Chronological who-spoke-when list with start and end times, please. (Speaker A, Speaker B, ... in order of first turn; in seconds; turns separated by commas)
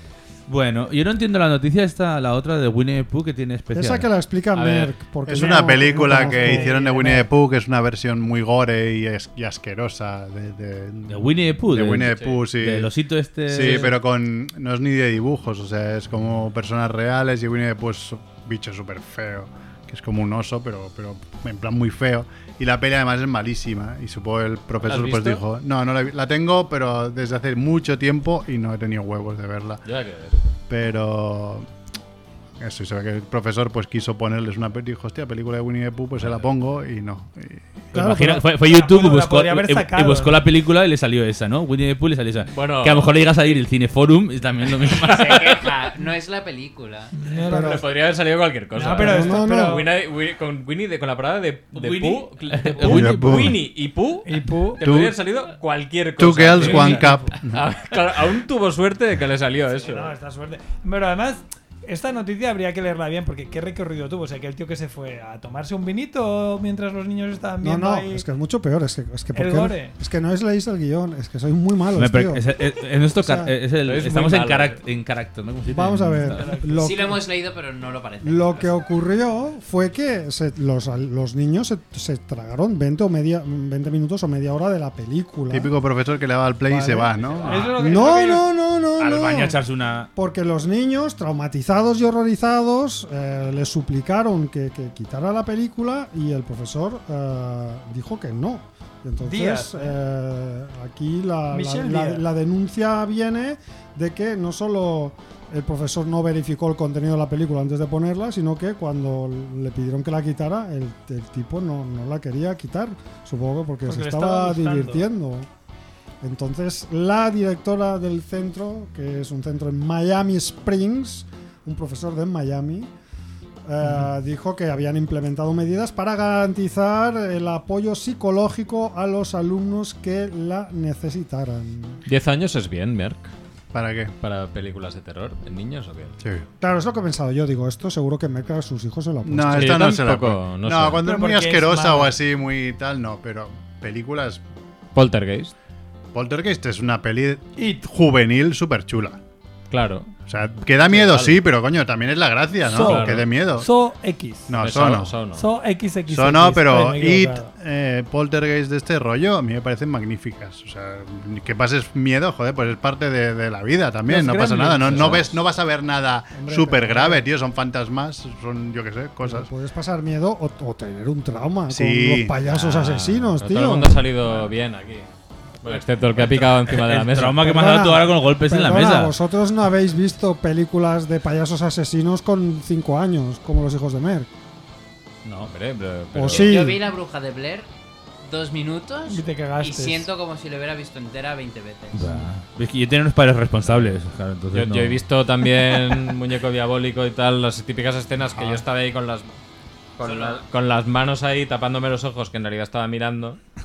Speaker A: 0.5-4.1, Speaker B: 3.7-7.3, Speaker C: 4.5-4.9, Speaker D: 5.2-12.9, Speaker E: 5.4-6.8, Speaker A: 11.1-13.9, Speaker C: 12.0-12.4, Speaker D: 13.4-29.8, Speaker C: 13.6-13.9, Speaker C: 24.8-25.4, Speaker C: 29.8-30.5, Speaker D: 30.7-31.7, Speaker D: 32.6-37.9, Speaker C: 36.2-36.5, Speaker B: 37.9-38.5, Speaker A: 37.9-45.5, Speaker E: 38.6-40.4, Speaker C: 42.5-43.5, Speaker F: 45.0-47.1, Speaker C: 45.1-45.6, Speaker E: 47.1-47.8, Speaker C: 47.4-60.1, Speaker B: 47.5-47.9, Speaker E: 48.7-49.9, Speaker B: 48.9-49.9, Speaker A: 51.7-53.5, Speaker D: 52.8-53.6, Speaker E: 54.2-54.8, Speaker D: 54.8-55.1, Speaker D: 56.2-57.6, Speaker E: 56.5-57.3, Speaker E: 59.7-68.2, Speaker B: 67.6-72.4, Speaker E: 69.3-69.9, Speaker A: 72.0-76.5, Speaker B: 73.2-73.5, Speaker C: 73.8-74.8, Speaker B: 75.7-77.2, Speaker E: 76.2-76.8, Speaker F: 76.7-78.8, Speaker B: 78.2-85.7, Speaker D: 85.5-87.7, Speaker B: 86.7-87.1, Speaker E: 87.4-88.5, Speaker B: 87.7-89.6, Speaker A: 89.0-90.1, Speaker B: 90.2-115.5, Speaker E: 99.2-100.0, Speaker E: 101.5-102.2, Speaker E: 113.9-115.0, Speaker B: 116.2-122.9, Speaker B: 123.7-132.0, Speaker C: 132.1-133.3, Speaker D: 133.7-134.1, Speaker C: 134.2-136.2, Speaker D: 136.2-136.4, Speaker B: 136.6-139.9, Speaker D: 139.2-144.4, Speaker C: 139.5-141.0, Speaker E: 141.0-142.2, Speaker C: 144.9-145.5, Speaker D: 146.1-149.2, Speaker E: 147.6-147.8, Speaker C: 149.7-150.1, Speaker D: 150.3-153.7, Speaker C: 150.8-151.4, Speaker E: 152.7-154.5, Speaker C: 152.7-153.3, Speaker D: 154.5-155.2, Speaker C: 154.6-155.4, Speaker E: 155.3-157.5, Speaker D: 156.1-169.5, Speaker E: 164.1-165.2, Speaker C: 164.8-165.3, Speaker B: 166.3-167.3, Speaker B: 169.2-174.1, Speaker D: 171.7-172.3, Speaker C: 172.4-175.1, Speaker C: 175.6-177.5, Speaker A: 176.4-179.2, Speaker B: 177.3-184.3, Speaker A: 185.2-185.5, Speaker C: 185.5-186.7, Speaker B: 186.1-186.8, Speaker F: 186.3-187.7, Speaker F: 188.2-192.2, Speaker E: 189.1-190.1, Speaker A: 191.9-195.0, Speaker C: 193.6-193.9, Speaker C: 194.5-199.3, Speaker C: 200.0-203.4, Speaker F: 200.0-200.4